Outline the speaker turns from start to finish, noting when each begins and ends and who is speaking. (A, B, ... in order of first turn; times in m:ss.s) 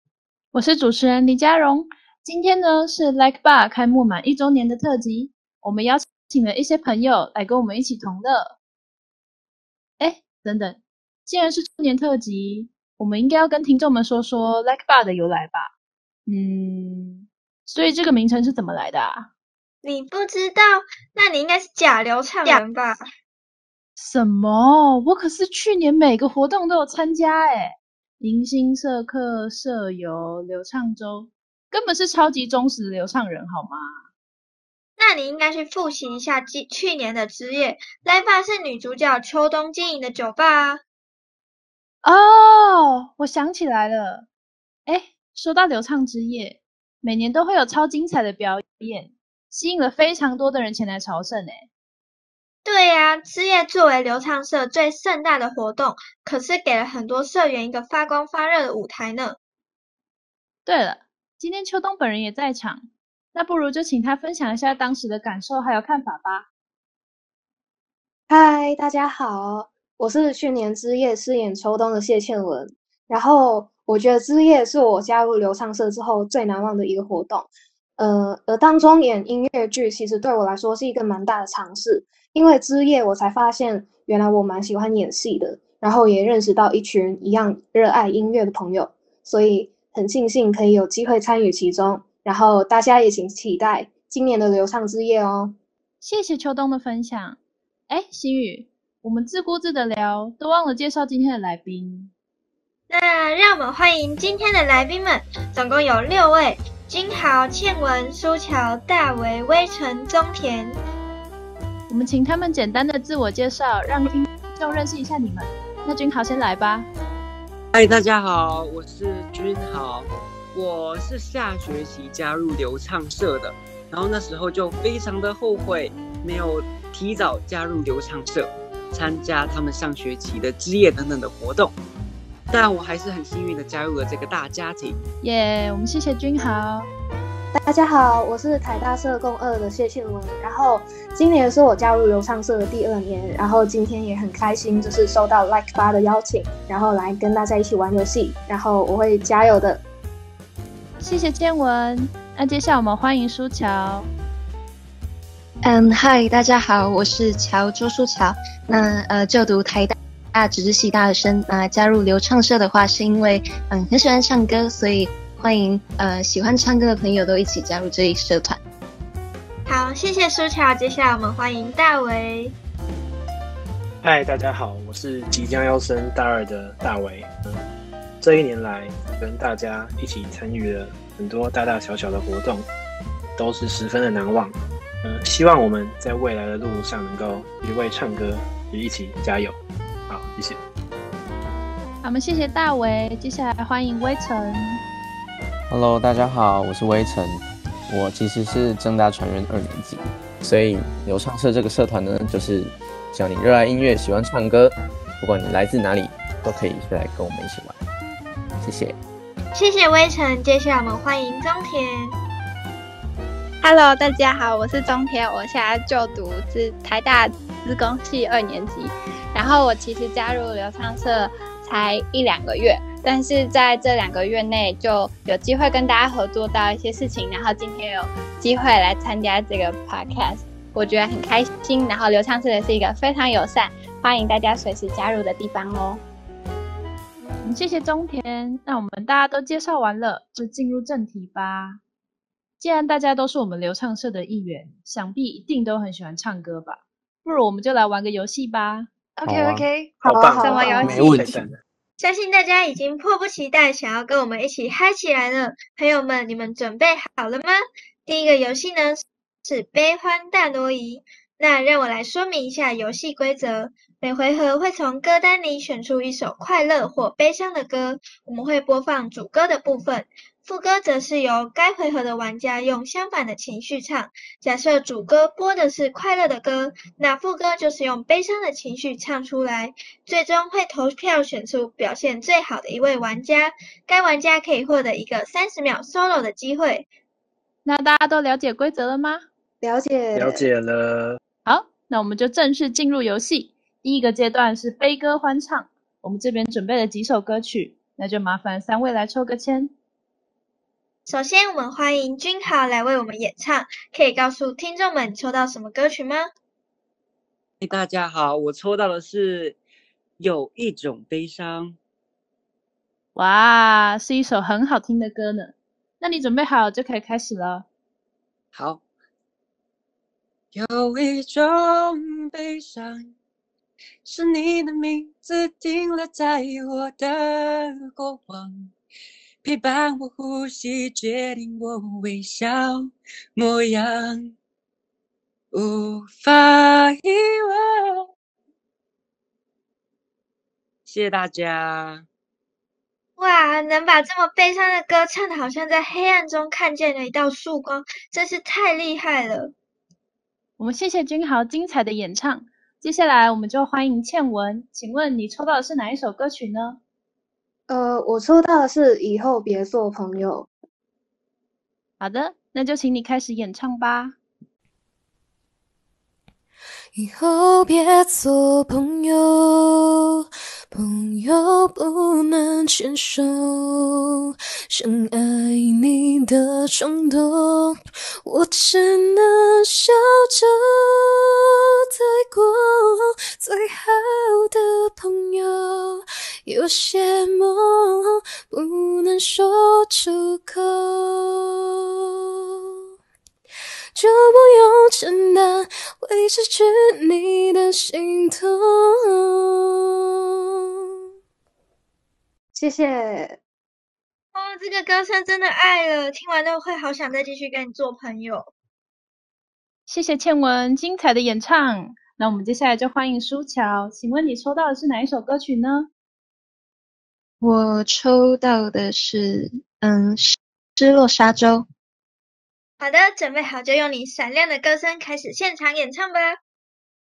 0:00.5-0:08.6 A
0:10.0-0:15.7 A
0:16.3-0:19.3 A
0:19.8-0:23.0 B
0:24.0-0:34.0 A
0:35.0-0:40.8 B
0:42.0-0:44.2 A
0:44.9-0:51.7 A
0:52.6-0:59.4 B
1:00.6-1:06.5 A
1:08.3-1:35.6 C
1:36.0-1:37.4 A
1:37.9-1:42.1 A
1:42.9-1:50.8 B
1:51.9-1:56.9 A
1:57.7-2:11.8 D
2:12.5-2:15.0 D
2:15.2-2:16.9 A
2:17.5-2:29.8 C
2:31.0-2:34.1 A
2:35.6-2:48.6 E
2:49.7-2:52.5 B
2:54.0-2:57.3 F
2:58.2-3:02.7 F
3:03.4-3:09.6 F
3:10.1-3:10.6 F
3:12.0-3:14.8 A
3:15.7-3:27.8 G
3:28.6-3:28.9 G
3:29.5-3:32.2 B
3:33.6-3:56.0 H
3:57.4-4:01.8 A
4:02.6-4:08.9 A
4:09.2-4:11.4 E
4:09.2-4:09.6 G
4:10.0-4:11.6 F
4:10.0-4:11.1 C
4:12.0-4:46.8 B
4:47.6-4:49.2 A
4:49.6-4:50.4 C
4:50.1-4:51.2 F
4:51.4-4:59.7 A
5:01.0-5:06.3 B
5:07.6-5:09.6 D
5:10.2-5:11.8 D
5:13.1-5:17.7 A
5:18.5-5:18.8 D
5:20.5-5:23.1 D
5:24.0-5:28.7 D
5:29.4-5:34.3 D
5:35.5-5:38.1 D
5:40.8-5:42.0 D
5:43.2-5:49.5 B
5:50.6-5:56.8 A
5:57.7-6:00.5 C
6:02.0-6:04.2 A
6:06.9-6:31.8 I
6:33.9-6:39.8 I
6:42.5-6:43.4 C
6:44.3-6:48.5 B
6:49.9-6:55.9 A
6:57.4-7:01.6 E
7:02.8-7:06.4 B